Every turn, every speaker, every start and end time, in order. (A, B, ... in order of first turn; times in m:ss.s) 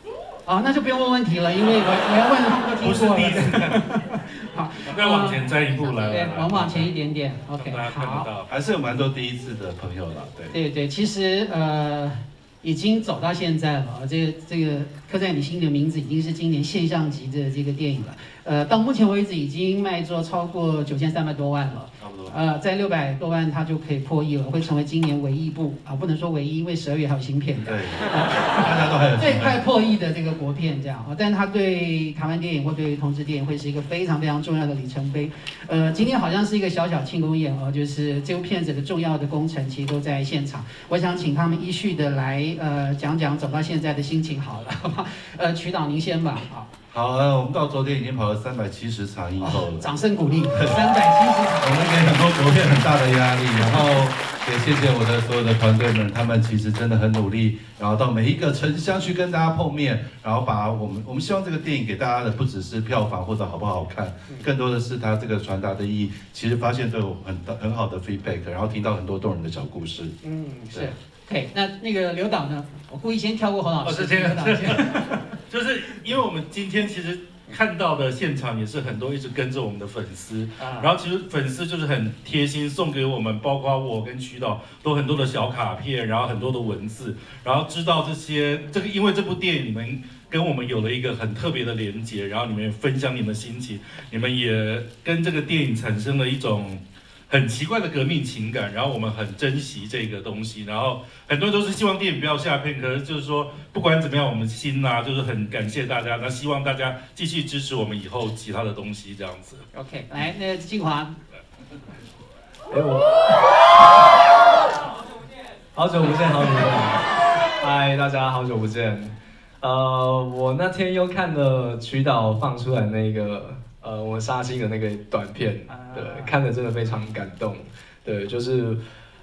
0:00.5-0:08.3 A
0:02.8-0:04.2 B
0:04.9-0:06.9 B
0:07.6-0:08.5 B
0:08.5-0:10.6 C
0:10.5-0:28.6 A
0:22.0-0:22.4 C
0:27.6-0:29.6 C
0:29.2-0:46.7 A
0:46.9-0:49.9 C
0:49.4-0:52.1 A
0:50.5-0:50.9 C
0:51.6-1:10.2 C
0:53.6-0:53.9 A
1:10.2-1:15.1 A
1:13.8-1:49.6 B
1:20.6-1:20.9 A
1:49.7-1:51.2 A
1:52.7-1:53.7 D
1:55.7-2:08.8 D
2:05.7-2:06.3 A